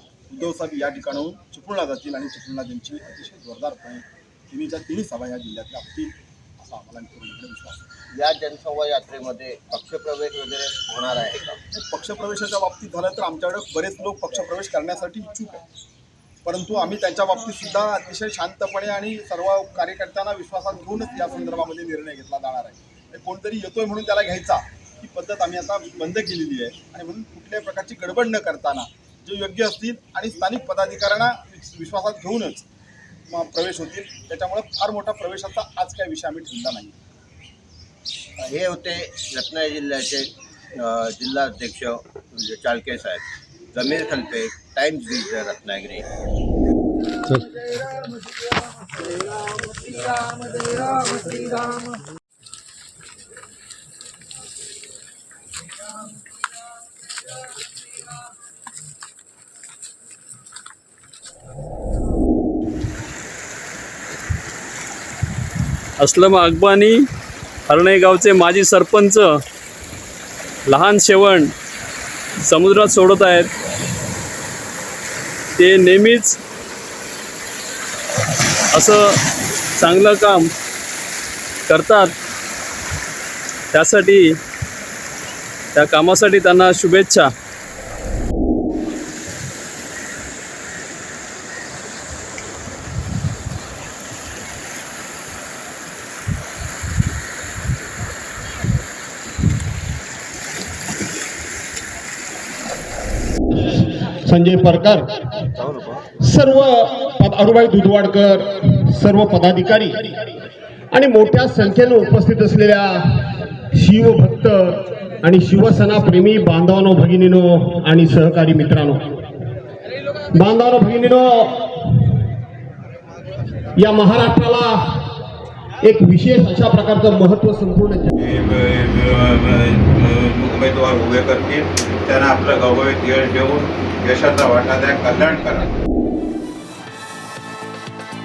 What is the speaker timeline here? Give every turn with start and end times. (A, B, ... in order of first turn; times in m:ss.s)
0:00.3-0:07.8 A
0:08.1-0:11.6 B
0:11.7-0:15.6 A
0:16.4-0:32.6 A
0:33.3-0:37.0 A
0:38.4-0:43.2 B
0:43.7-0:46.0 B
1:06.0-1:07.0 C
1:07.7-1:09.3 C
1:10.7-1:11.5 C
1:12.4-1:13.5 C
1:15.6-1:16.4 C
1:18.7-1:19.2 C
1:19.8-1:20.5 C
1:21.7-1:22.1 C
1:23.7-1:24.4 C
1:25.7-1:27.3 C
1:43.8-1:45.1 D
1:46.2-1:50.2 D
1:50.9-1:59.0 D
2:00.3-2:02.0 D
2:03.8-2:05.1 D
2:05.8-2:08.1 D
2:08.2-2:15.7 E